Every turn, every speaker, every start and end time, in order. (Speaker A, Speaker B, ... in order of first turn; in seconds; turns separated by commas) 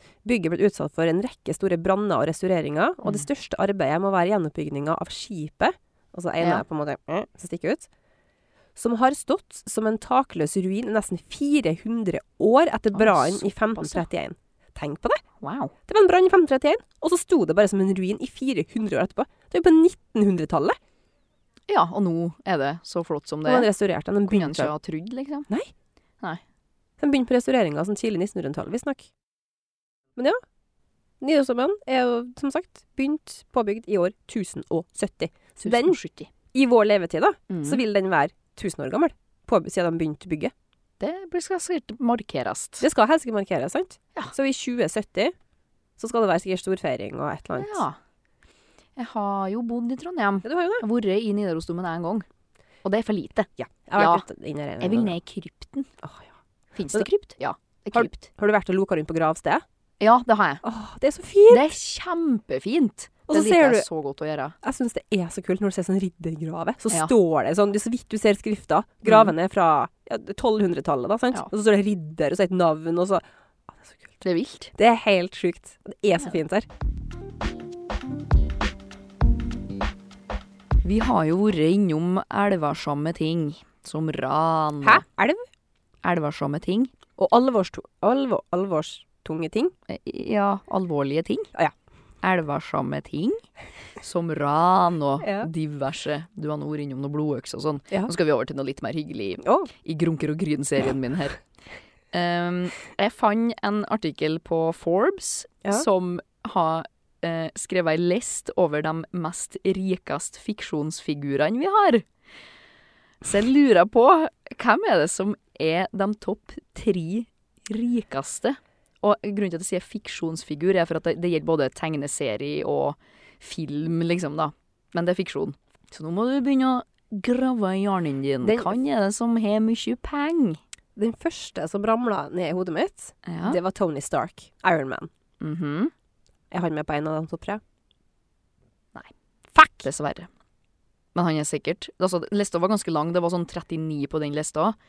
Speaker A: 0.2-7.9, Speaker A: 8.8-15.2, Speaker B: 12.9-14.1, Speaker B: 15.4-15.7, Speaker A: 15.9-20.8, Speaker B: 21.7-23.7, Speaker A: 23.4-24.7, Speaker B: 24.3-25.5, Speaker A: 27.0-29.1, Speaker A: 31.2-36.0, Speaker B: 35.6-36.3, Speaker A: 36.5-40.5, Speaker B: 37.5-37.8, Speaker B: 41.0-42.9, Speaker A: 42.8-45.3, Speaker A: 46.0-47.8, Speaker B: 47.6-48.0, Speaker B: 49.0-52.2, Speaker A: 50.4-50.8, Speaker B: 52.8-54.2, Speaker A: 53.6-55.1, Speaker B: 54.8-55.9, Speaker A: 56.0-56.3, Speaker B: 56.7-58.3, Speaker A: 57.9-59.6, Speaker B: 60.0-60.6, Speaker A: 60.6-61.6, Speaker B: 61.5-64.6, Speaker A: 63.3-63.9, Speaker A: 64.6-74.1, Speaker B: 69.1-69.3, Speaker B: 74.2-74.7, Speaker A: 74.7-76.7, Speaker B: 80.8-85.0, Speaker A: 84.8-85.4, Speaker B: 86.0-86.9, Speaker A: 87.2-89.7, Speaker B: 89.9-91.5, Speaker B: 92.2-93.4, Speaker B: 94.0-101.4, Speaker A: 95.2-95.5, Speaker A: 99.4-99.7, Speaker B: 102.1-112.0, Speaker B: 113.2-130.6, Speaker A: 128.4-128.8, Speaker A: 130.9-135.1, Speaker B: 133.2-133.6, Speaker B: 135.4-135.9, Speaker A: 136.5-137.6, Speaker B: 139.7-140.3, Speaker B: 141.1-144.8